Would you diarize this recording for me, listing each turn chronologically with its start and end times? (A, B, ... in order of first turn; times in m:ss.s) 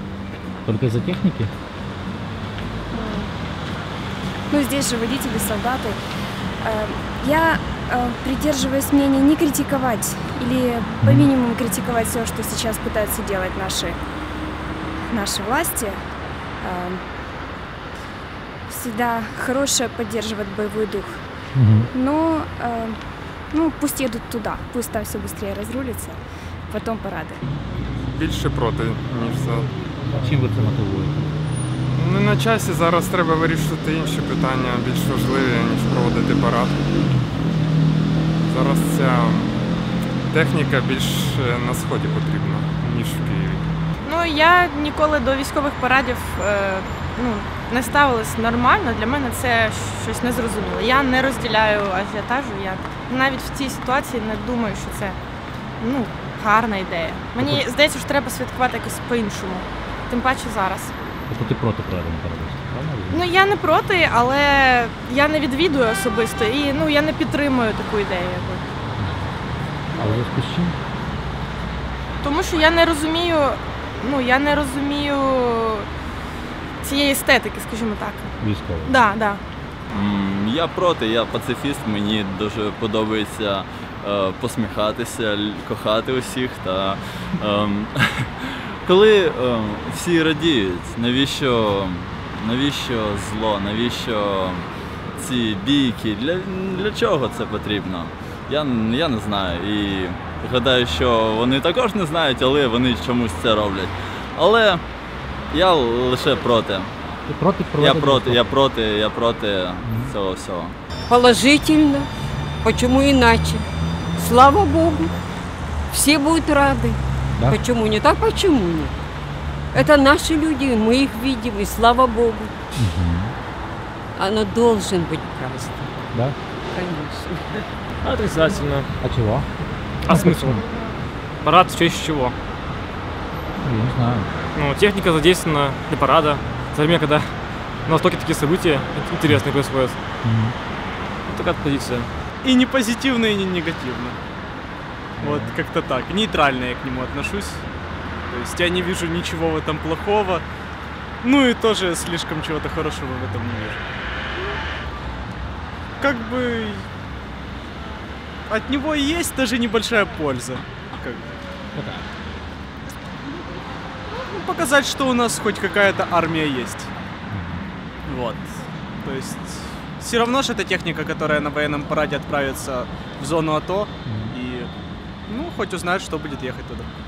0:00.6-0:01.5 A
0:02.9-0:03.3 B
0:04.5-0:06.0 B
0:06.6-0:14.0 B
0:11.0-0:11.3 A
0:15.0-0:16.0 B
0:16.6-0:17.0 B
0:18.7-0:21.2 B
0:21.5-0:21.9 A
0:21.9-0:23.0 B
0:23.5-0:27.4 B
0:28.1-0:29.7 C
0:30.1-0:31.3 A
0:31.8-0:36.8 C
0:38.5-0:39.5 C
0:40.3-0:43.6 C
0:44.0-0:55.2 D
0:55.8-1:00.9 D
0:57.4-0:57.6 A
1:01.3-1:03.3 A
1:03.1-1:08.7 D
1:09.0-1:09.2 A
1:09.9-1:10.8 A
1:12.2-1:15.9 D
1:16.8-1:18.3 D
1:18.4-1:19.0 A
1:18.8-1:19.4 D
1:19.9-1:44.8 E
1:45.5-1:47.0 E
1:47.3-1:48.5 A
1:47.8-1:50.8 E
1:49.8-1:50.1 A
1:51.1-1:52.1 F
1:52.6-1:55.1 F
1:55.9-1:58.9 F
1:59.7-2:02.5 F
2:02.8-2:03.3 A
2:04.2-2:05.9 F
2:06.8-2:07.3 F
2:08.0-2:08.9 G
2:09.0-2:09.5 A
2:10.0-2:10.6 G
2:10.0-2:10.6 A
2:11.4-2:12.3 G
2:13.6-2:14.3 A
2:14.5-2:20.0 G
2:20.2-2:20.5 A
2:21.3-2:22.1 G
2:22.4-2:24.2 H
2:25.2-2:25.6 A
2:25.2-2:27.6 H
2:28.3-2:30.4 H
2:31.2-2:33.8 H
2:36.0-2:36.8 H
2:38.5-2:41.4 H
2:41.7-2:42.0 A
2:44.3-2:46.9 H
2:47.3-2:47.6 A
2:48.1-2:48.5 H
2:49.0-2:54.7 H
2:54.0-2:54.3 A
2:55.3-2:56.9 H